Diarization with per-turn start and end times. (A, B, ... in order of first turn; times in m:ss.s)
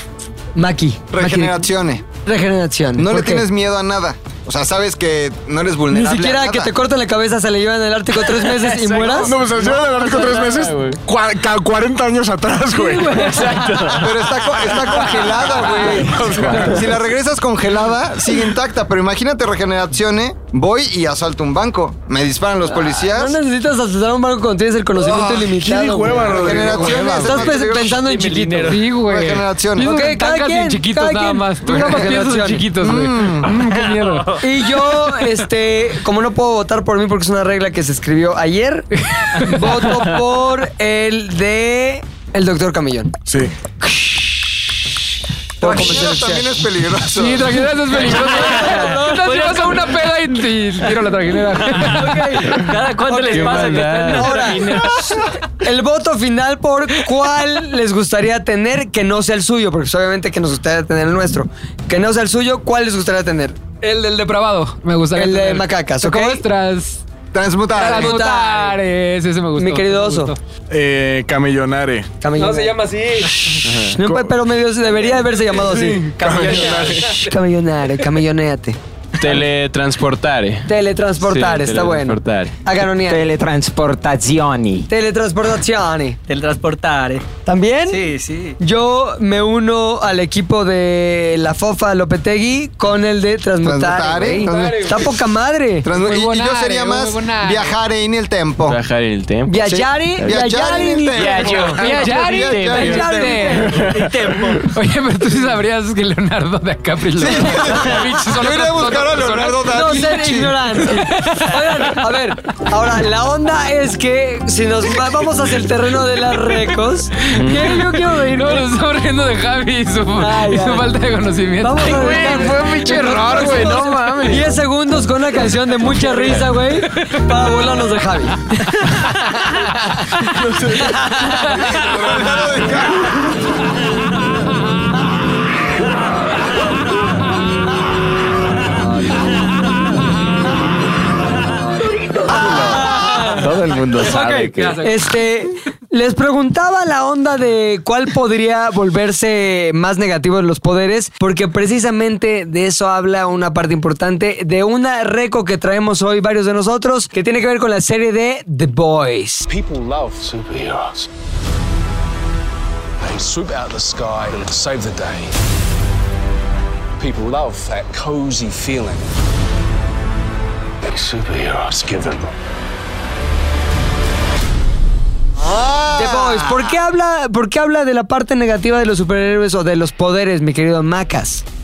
0:00.6-0:01.7 A
0:01.1-0:02.0 B
0:02.2-0:03.4 A
0:03.0-0:06.7 B
0:05.9-0:09.3 A
0:08.9-0:11.0 C
0:09.0-0:13.4 D
0:12.7-0:14.0 A
0:13.3-0:14.1 C
0:13.9-0:23.4 B
0:14.6-0:16.6 A
0:16.1-0:16.6 D
0:22.7-0:28.8 A
0:25.0-0:27.4 D
0:26.2-0:28.0 B
0:27.1-0:28.9 E
0:28.6-0:34.4 F
0:29.0-0:29.9 B
0:29.8-0:32.6 A
0:32.8-0:33.6 B
0:34.4-0:43.1 A
0:39.0-0:39.6 F
0:39.4-0:39.8 E
0:43.3-0:43.5 D
0:45.6-0:46.5 A
0:45.6-0:47.7 B
0:47.1-0:52.6 F
0:47.9-0:49.6 A
0:48.1-0:50.0 E
0:51.7-0:55.2 E
0:51.8-1:03.6 A
0:53.3-0:54.8 C
1:03.8-1:07.0 F
1:05.1-1:06.4 A
1:07.3-1:08.1 B
1:07.7-1:10.4 F
1:07.8-1:08.8 A
1:09.5-1:10.3 A
1:10.7-1:12.1 D
1:12.2-1:12.8 A
1:12.4-1:13.6 F
1:13.5-1:18.8 A
1:13.6-1:13.9 C
1:13.9-1:14.3 D
1:15.5-1:17.2 D
1:19.2-1:20.7 C
1:20.7-1:23.3 A
1:21.2-1:22.6 C
1:23.0-1:24.9 G
1:24.9-1:26.2 A
1:26.3-1:27.3 E
1:27.4-1:28.0 A
1:27.9-1:28.6 E
1:28.6-1:35.9 A
1:33.6-1:35.1 B
1:34.5-1:34.9 E
1:34.5-1:34.7 F
1:35.8-1:38.8 B
1:35.9-1:37.7 F
1:38.6-1:39.5 C
1:39.5-1:41.7 A
1:39.6-1:43.4 B
1:40.8-1:44.7 E
1:41.2-1:41.8 C
1:41.8-1:43.9 F
1:42.6-1:43.8 A
1:44.6-1:50.0 F
1:47.1-1:50.8 B
1:49.7-1:58.6 A
1:50.8-1:52.0 F
1:57.3-2:04.4 F
2:00.2-2:00.9 A
2:01.6-2:08.6 A
2:01.8-2:04.3 C
2:06.9-2:07.3 F
2:10.7-2:11.3 A
2:11.3-2:11.8 F
2:11.5-2:13.2 B
2:22.2-2:22.9 B
2:22.3-2:24.8 G
2:22.4-2:23.4 A
2:24.1-2:24.7 F
2:24.8-2:39.5 A
2:39.4-2:41.1 H
2:43.0-2:45.3 H
2:47.0-2:49.1 H
2:50.8-2:52.3 H
2:55.4-2:56.8 B
2:56.0-3:01.4 A